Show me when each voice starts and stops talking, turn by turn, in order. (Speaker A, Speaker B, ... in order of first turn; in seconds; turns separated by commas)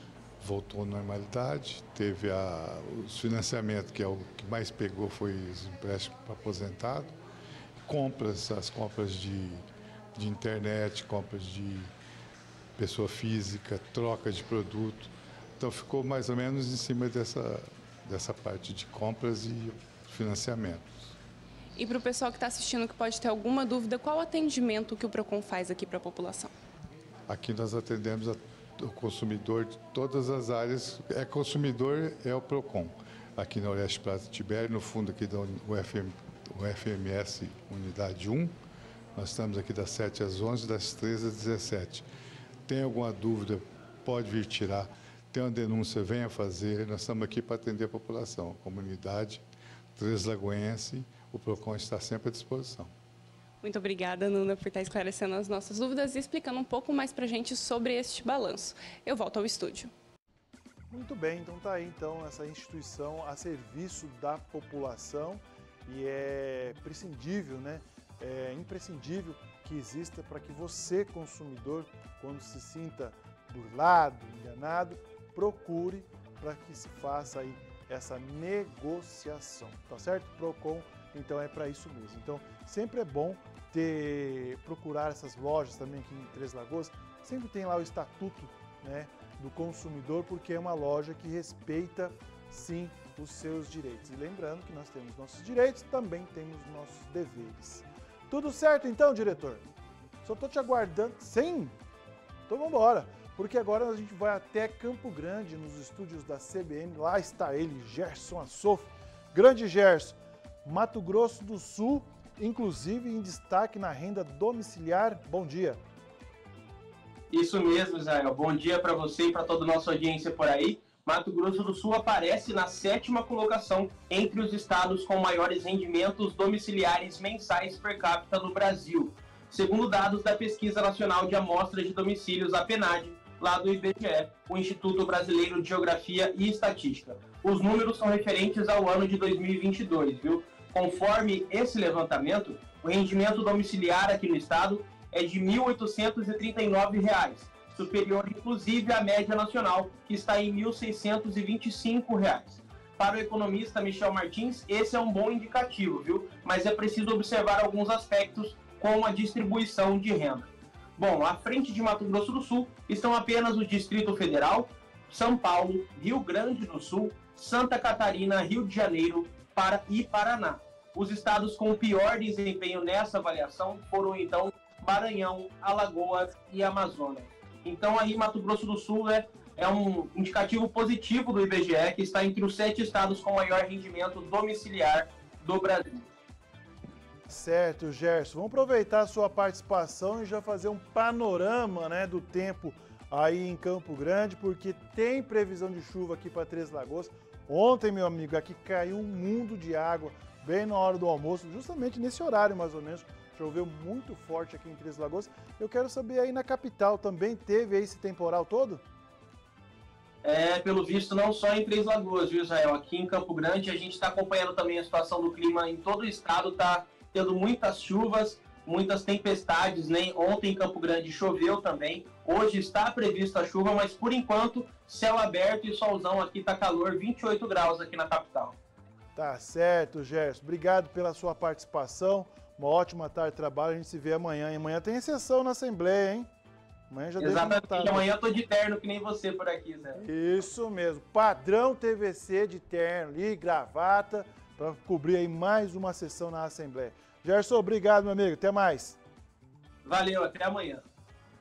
Speaker A: 0.4-7.2, Speaker A: 7.8-11.9, Speaker A: 12.8-21.1, Speaker B: 21.8-26.5, Speaker A: 27.3-38.6, Speaker A: 39.1-42.1, Speaker A: 42.7-49.4, Speaker A: 50.0-52.9, Speaker B: 53.6-59.9, Speaker C: 60.9-99.7, Speaker C: 100.2-101.8, Speaker C: 102.5-115.8, Speaker D: 117.3-186.1, Speaker C: 187.3-208.8, Speaker D: 210.2-228.6, Speaker C: 229.2-236.3, Speaker C: 236.9-238.2, Speaker D: 237.2-240.1, Speaker C: 240.0-249.0, Speaker D: 249.8-250.8